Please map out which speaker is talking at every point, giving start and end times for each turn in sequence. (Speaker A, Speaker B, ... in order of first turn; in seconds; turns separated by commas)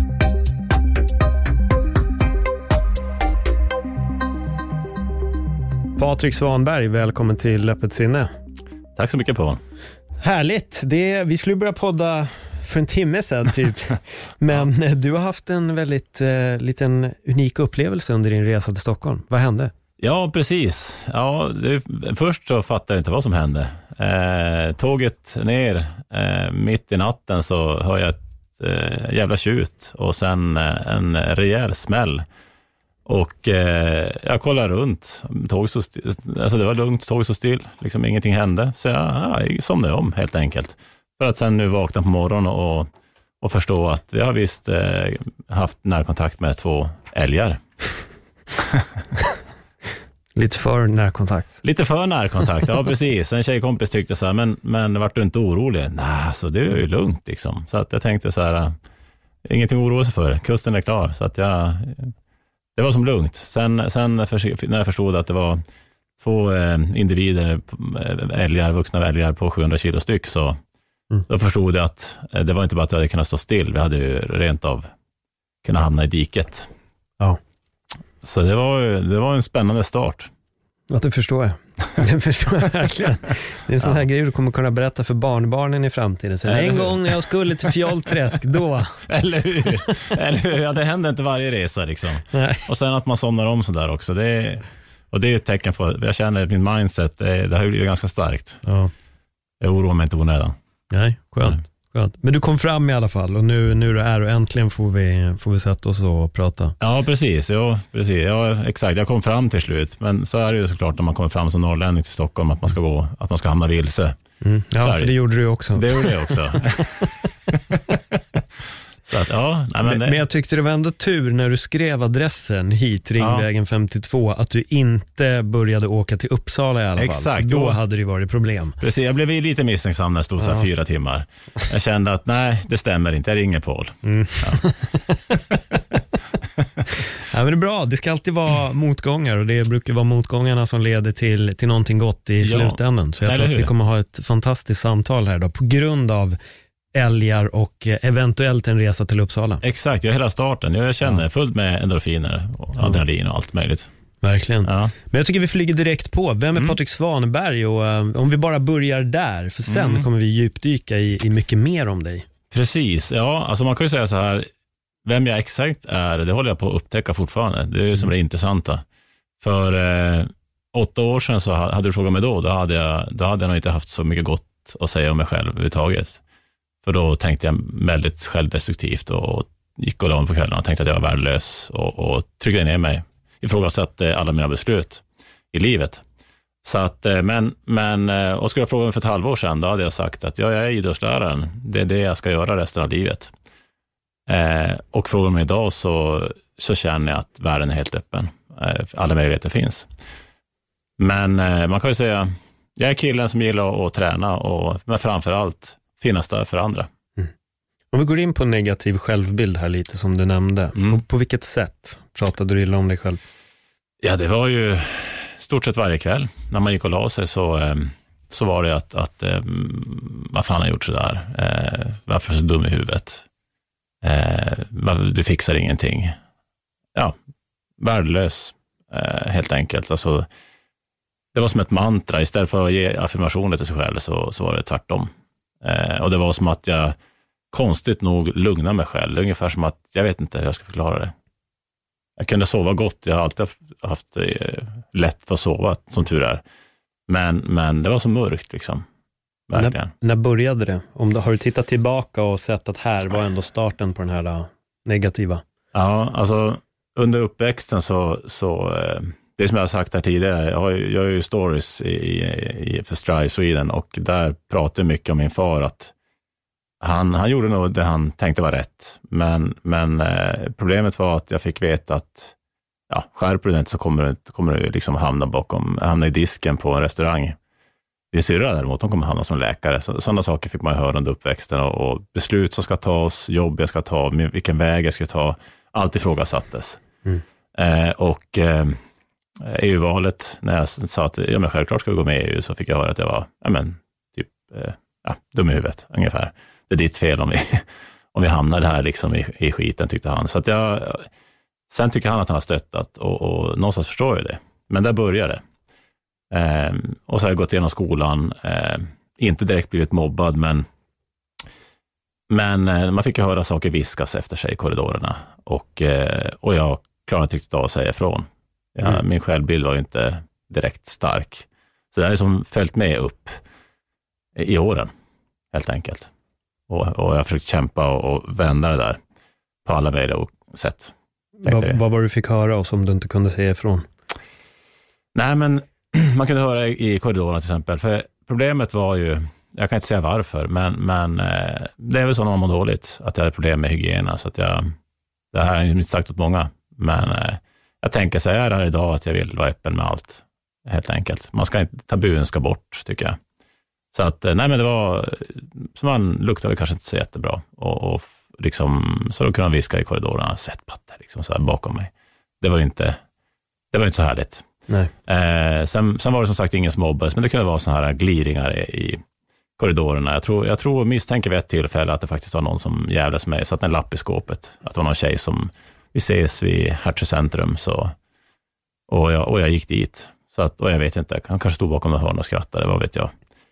Speaker A: 6.0-8.3, Speaker B: 9.0-9.6, Speaker A: 10.2-19.7, Speaker B: 20.0-32.2, Speaker B: 33.1-42.9, Speaker B: 43.4-47.6, Speaker B: 48.6-49.0, Speaker A: 50.4-51.6, Speaker B: 51.6-58.7, Speaker B: 59.5-62.1, Speaker B: 62.8-65.6, Speaker B: 66.2-70.6, Speaker B: 71.3-74.9, Speaker B: 75.6-76.7, Speaker B: 78.2-80.3, Speaker A: 80.9-89.0, Speaker B: 86.5-88.0, Speaker B: 89.1-98.6, Speaker A: 92.3-92.7, Speaker A: 98.7-98.9, Speaker B: 99.6-100.6, Speaker A: 100.9-106.8, Speaker B: 106.8-114.2, Speaker A: 114.4-117.1, Speaker B: 114.8-115.2, Speaker B: 115.7-118.4, Speaker B: 119.0-120.2, Speaker A: 119.8-128.8, Speaker B: 123.2-123.5, Speaker B: 127.0-127.8, Speaker B: 128.8-134.6, Speaker A: 130.4-130.7, Speaker A: 134.0-135.2, Speaker A: 137.2-146.4, Speaker B: 142.4-143.7, Speaker A: 146.9-149.6, Speaker B: 149.6-153.9, Speaker A: 154.2-162.3, Speaker B: 154.6-154.9, Speaker B: 159.7-160.1, Speaker B: 162.5-164.5, Speaker B: 165.1-168.8, Speaker B: 169.4-176.2, Speaker B: 176.8-186.0, Speaker B: 186.6-193.3, Speaker B: 194.3-199.9, Speaker B: 201.0-206.9, Speaker A: 207.9-213.2, Speaker B: 214.0-223.2, Speaker B: 224.0-226.2, Speaker B: 227.8-230.3, Speaker B: 231.3-235.1, Speaker B: 235.6-237.0, Speaker B: 237.5-241.1, Speaker B: 242.2-246.4, Speaker B: 247.1-248.8, Speaker B: 249.5-249.9, Speaker A: 249.5-255.4, Speaker B: 255.7-265.9, Speaker B: 266.8-272.4, Speaker B: 272.9-277.4, Speaker B: 278.1-286.8, Speaker B: 287.6-288.8, Speaker B: 289.4-301.1, Speaker B: 301.7-305.4, Speaker B: 306.3-310.7, Speaker B: 312.3-323.4, Speaker B: 324.4-324.9, Speaker B: 325.5-326.1, Speaker B: 326.7-329.0, Speaker B: 329.6-330.9, Speaker A: 331.4-333.9, Speaker B: 331.4-331.8, Speaker B: 335.1-344.7, Speaker B: 345.3-353.2, Speaker B: 353.9-363.0, Speaker B: 363.7-364.5, Speaker B: 365.1-369.0, Speaker B: 369.6-377.9, Speaker B: 378.9-383.1